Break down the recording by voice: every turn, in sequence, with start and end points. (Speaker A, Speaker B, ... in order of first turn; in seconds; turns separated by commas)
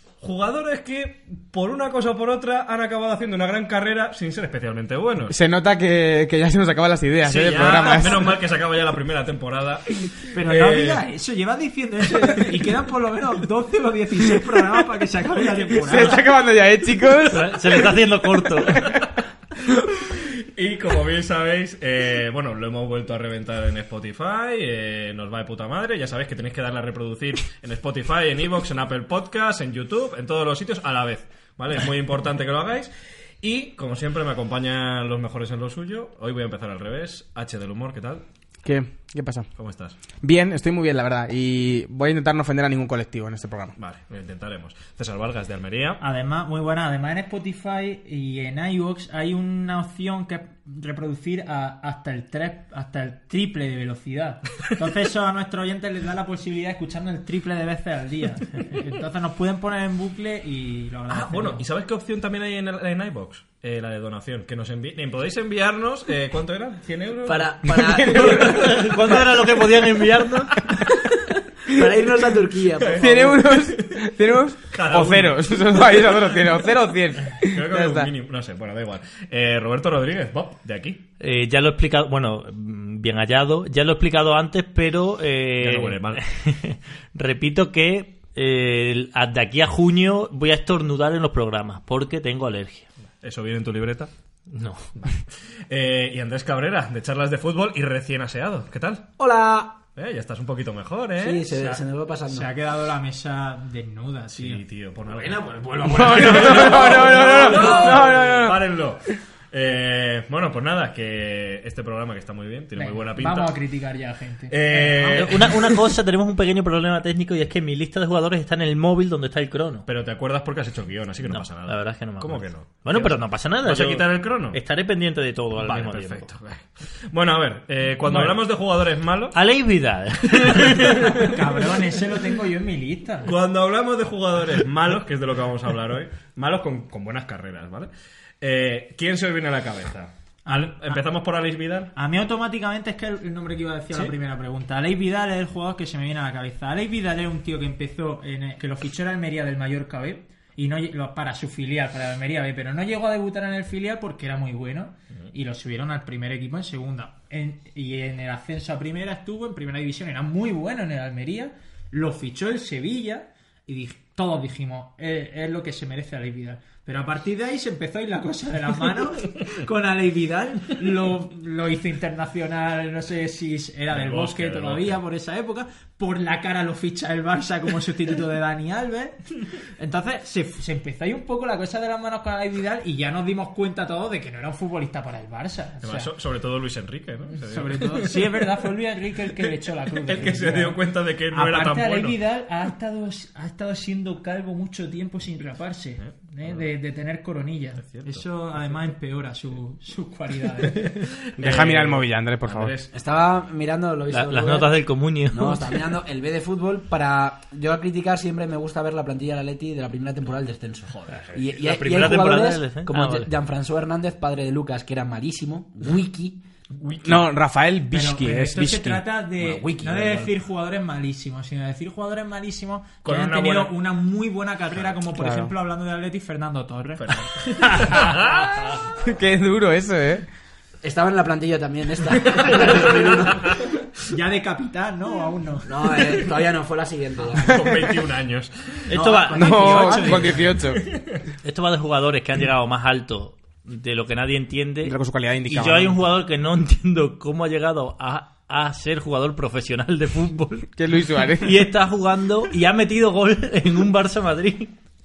Speaker A: 0.2-5.3, Speaker B: 5.3-8.4, Speaker A: 7.2-11.0, Speaker C: 10.3-16.2, Speaker B: 15.8-18.0, Speaker D: 17.3-18.9, Speaker A: 20.2-38.2, Speaker B: 38.6-39.5, Speaker A: 39.6-40.0, Speaker B: 40.2-43.7, Speaker A: 43.8-46.0, Speaker C: 46.0-61.6, Speaker A: 61.1-67.6, Speaker E: 67.2-69.5, Speaker B: 67.7-68.5, Speaker D: 68.1-70.6, Speaker E: 70.9-73.5, Speaker A: 72.8-74.1, Speaker B: 73.0-78.1, Speaker A: 74.7-76.0, Speaker A: 77.4-81.0, Speaker D: 81.2-92.9, Speaker A: 85.6-86.2, Speaker A: 93.2-94.1, Speaker D: 94.5-94.9, Speaker A: 95.0-99.2, Speaker E: 99.2-99.8, Speaker A: 99.9-101.8, Speaker E: 101.2-102.5, Speaker C: 102.3-104.6, Speaker A: 104.3-113.6, Speaker E: 105.1-108.5, Speaker B: 105.8-108.7, Speaker C: 112.7-115.3, Speaker A: 114.5-115.8, Speaker D: 115.1-119.9, Speaker A: 119.9-124.6, Speaker D: 121.2-126.3, Speaker A: 125.5-129.4, Speaker C: 128.1-128.3, Speaker D: 129.3-131.3, Speaker A: 130.4-131.4, Speaker C: 131.2-133.3, Speaker A: 133.2-137.9, Speaker A: 138.4-141.9, Speaker C: 140.4-141.0, Speaker C: 141.9-179.2, Speaker A: 173.9-175.0, Speaker C: 179.8-186.1, Speaker A: 185.8-188.4, Speaker C: 187.3-201.1, Speaker A: 190.1-192.2, Speaker A: 196.0-196.6, Speaker A: 197.8-198.2, Speaker A: 200.8-202.9, Speaker B: 201.4-202.7, Speaker E: 202.9-216.4, Speaker D: 204.1-205.9, Speaker A: 210.9-211.5, Speaker D: 211.6-213.3, Speaker A: 216.8-217.2, Speaker B: 217.0-219.0, Speaker C: 217.9-227.1, Speaker E: 219.4-220.3, Speaker A: 223.0-223.8, Speaker B: 225.2-225.5, Speaker A: 227.0-228.8, Speaker B: 228.9-230.2, Speaker E: 230.8-233.7, Speaker A: 232.8-233.5, Speaker C: 234.1-236.1, Speaker E: 235.7-237.8, Speaker A: 237.4-238.9, Speaker D: 238.9-240.5, Speaker E: 238.9-240.5, Speaker B: 239.3-240.8, Speaker C: 239.6-240.3, Speaker A: 240.6-241.2, Speaker D: 241.4-254.7, Speaker B: 244.8-246.0, Speaker B: 250.8-251.6